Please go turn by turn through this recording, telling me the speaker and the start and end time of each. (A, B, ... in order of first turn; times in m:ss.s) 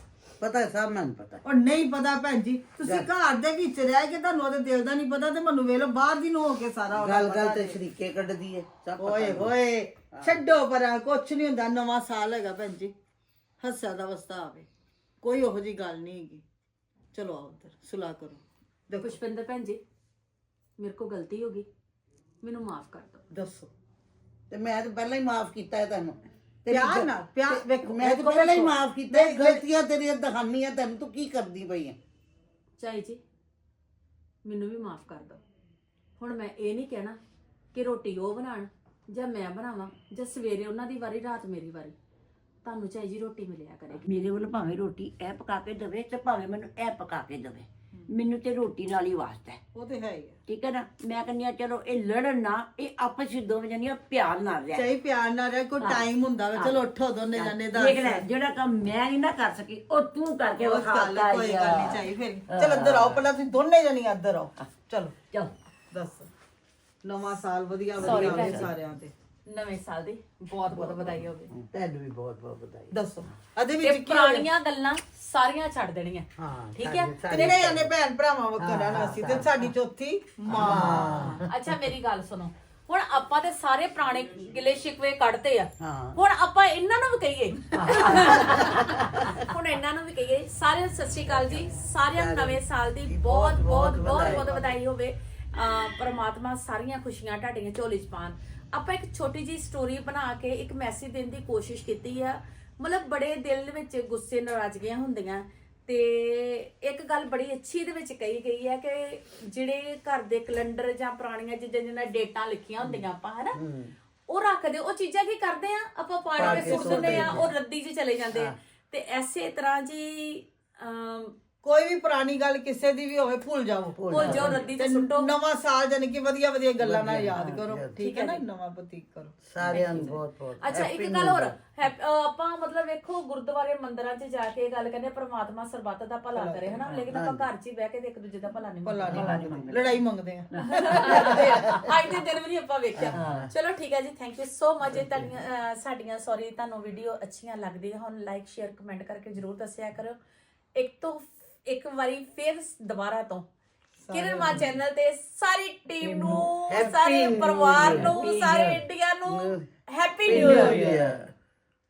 0:00.4-0:01.4 A
0:01.4-0:07.8 B
0:06.9-0:10.3 A
0:09.0-0:09.6 B
0:10.2-0:12.9 B
0:13.6-0:14.7 B
0:15.2-0:16.4 B
0:17.1-0:19.2 B
0:19.0-0:19.8 C
0:20.8-0:21.6 C
0:22.4-0:23.2 C
0:23.3-0:23.7 B
0:24.5-0:32.0 A
0:26.7-0:29.6 B
0:32.8-0:33.2 C
0:34.4-0:35.4 C
0:36.2-0:37.2 C
0:37.7-0:41.9 C
0:42.6-0:44.0 C
0:44.0-0:49.6 D
0:49.7-0:50.4 B
0:50.5-0:54.9 D
0:54.7-0:58.3 B
0:55.8-1:03.2 D
1:00.6-1:05.1 B
1:05.9-1:06.3 B
1:07.0-1:09.1 B
1:08.0-1:08.7 D
1:08.0-1:08.7 C
1:09.5-1:11.4 C
1:10.7-1:11.3 B
1:11.7-1:12.9 A
1:12.9-1:14.5 B
1:13.8-1:17.6 C
1:16.4-1:17.9 A
1:17.3-1:21.4 B
1:18.6-1:19.5 A
1:20.5-1:21.4 A
1:21.5-1:53.6 C
1:25.8-1:26.2 A
1:27.8-1:29.2 A
1:32.1-1:34.5 A
1:34.4-1:34.7 B
1:53.5-1:53.9 A
1:54.3-2:01.3 C
1:56.4-1:57.4 B
1:56.4-1:57.5 A
1:58.3-1:58.5 A
2:01.6-2:09.8 B
2:04.0-2:04.6 A
2:04.1-2:05.3 C
2:06.8-2:07.9 A
2:08.0-2:08.4 C
2:09.4-2:11.5 A
2:09.7-2:10.2 D
2:10.6-2:19.4 C
2:16.3-2:17.0 B
2:17.1-2:17.5 A
2:18.8-2:21.7 B
2:19.1-2:20.0 D
2:20.5-2:21.8 D
2:20.8-2:30.2 C
2:23.0-2:23.4 A
2:23.1-2:23.5 D
2:30.7-2:33.5 C
2:34.0-2:34.6 B
2:34.1-2:40.9 C
2:36.1-2:39.6 A
2:37.8-2:38.8 D
2:40.2-2:41.3 A
2:40.3-2:41.0 B